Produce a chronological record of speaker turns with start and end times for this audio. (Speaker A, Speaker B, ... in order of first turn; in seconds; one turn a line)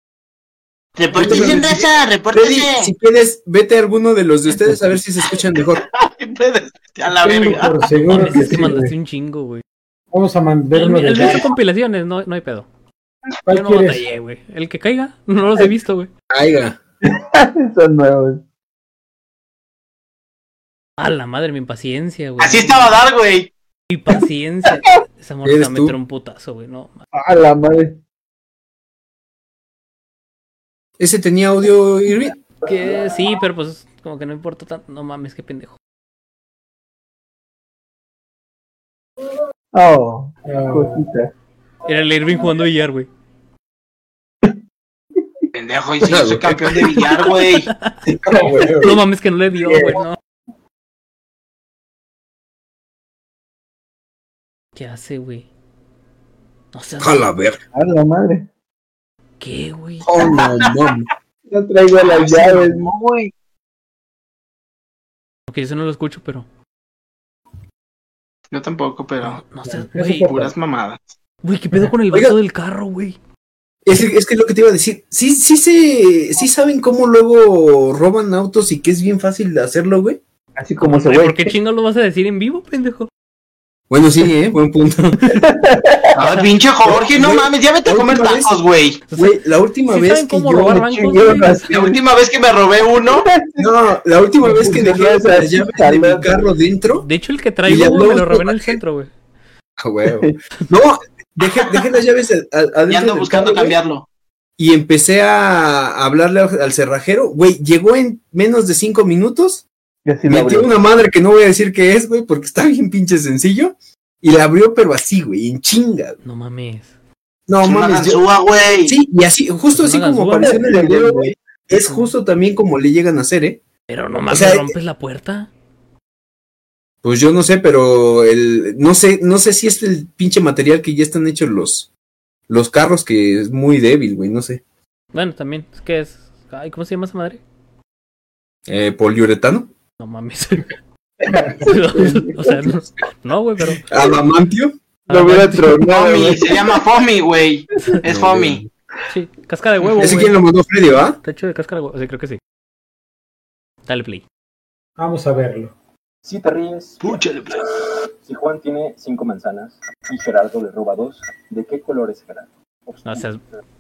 Speaker A: 1.0-2.9
Speaker B: 1.1-5.8
Speaker A: 5.9-8.0
Speaker C: 7.2-8.9
Speaker D: 8.1-9.6
Speaker C: 10.1-11.4
Speaker D: 10.7-12.7
Speaker C: 13.5-14.1
Speaker D: 13.5-16.1
Speaker B: 16.3-16.8
Speaker E: 17.1-18.4
Speaker D: 21.0-23.0
Speaker A: 22.4-23.5
Speaker D: 23.9-27.0
Speaker B: 25.4-26.0
Speaker E: 27.1-28.0
Speaker B: 31.0-32.4
Speaker D: 32.6-35.8
Speaker E: 39.7-41.3
Speaker C: 40.4-41.1
Speaker D: 41.9-43.1
Speaker A: 45.5-47.7
Speaker B: 46.0-46.8
Speaker D: 47.0-48.0
Speaker B: 48.1-48.9
Speaker D: 48.8-50.2
Speaker E: 49.6-50.0
Speaker D: 54.8-55.5
Speaker D: 56.7-57.3
Speaker B: 57.0-57.6
Speaker E: 57.7-58.5
Speaker D: 59.4-60.1
Speaker B: 60.0-61.1
Speaker A: 60.3-60.6
Speaker E: 61.5-62.9
Speaker A: 61.9-63.3
Speaker D: 65.5-66.5
Speaker A: 68.5-69.5
Speaker D: 69.2-70.4
Speaker C: 69.7-70.5
Speaker A: 70.1-71.0
Speaker D: 71.4-73.2
Speaker B: 73.9-80.2
Speaker E: 80.6-81.5
Speaker D: 80.8-83.1
Speaker B: 83.9-85.4
Speaker E: 85.4-86.1
Speaker A: 86.2-89.0
Speaker B: 86.8-88.5
Speaker D: 89.1-91.7
Speaker B: 89.2-90.9
Speaker E: 90.6-92.0
Speaker A: 91.7-93.3
Speaker E: 93.1-93.7
Speaker B: 93.6-97.1
Speaker E: 94.4-96.3
Speaker D: 97.0-99.1
Speaker B: 97.7-98.8
Speaker B: 99.8-103.8
Speaker A: 102.9-104.1
Speaker B: 104.6-109.7
Speaker E: 110.1-110.7
Speaker B: 110.3-116.2
Speaker D: 116.2-116.9
Speaker B: 117.5-118.2
Speaker A: 117.6-119.0
Speaker B: 118.8-123.6
Speaker D: 119.7-120.6
Speaker E: 120.4-121.3
Speaker D: 123.9-125.5
Speaker B: 124.3-124.7
Speaker B: 127.0-131.9
Speaker B: 132.5-134.6
Speaker D: 135.1-137.4
Speaker B: 138.7-139.7
Speaker D: 140.0-140.7
Speaker E: 141.3-142.6
Speaker D: 141.6-143.8
Speaker B: 143.9-144.8
Speaker D: 145.1-145.8
Speaker E: 145.1-146.7
Speaker A: 145.9-148.6
Speaker B: 148.1-148.7
Speaker D: 149.1-150.4
Speaker B: 150.0-151.2
Speaker D: 151.2-152.4
Speaker D: 153.9-154.2
Speaker C: 155.0-155.7
Speaker F: 156.2-157.2
Speaker A: 157.0-157.7
Speaker F: 158.2-163.2
Speaker D: 163.1-163.4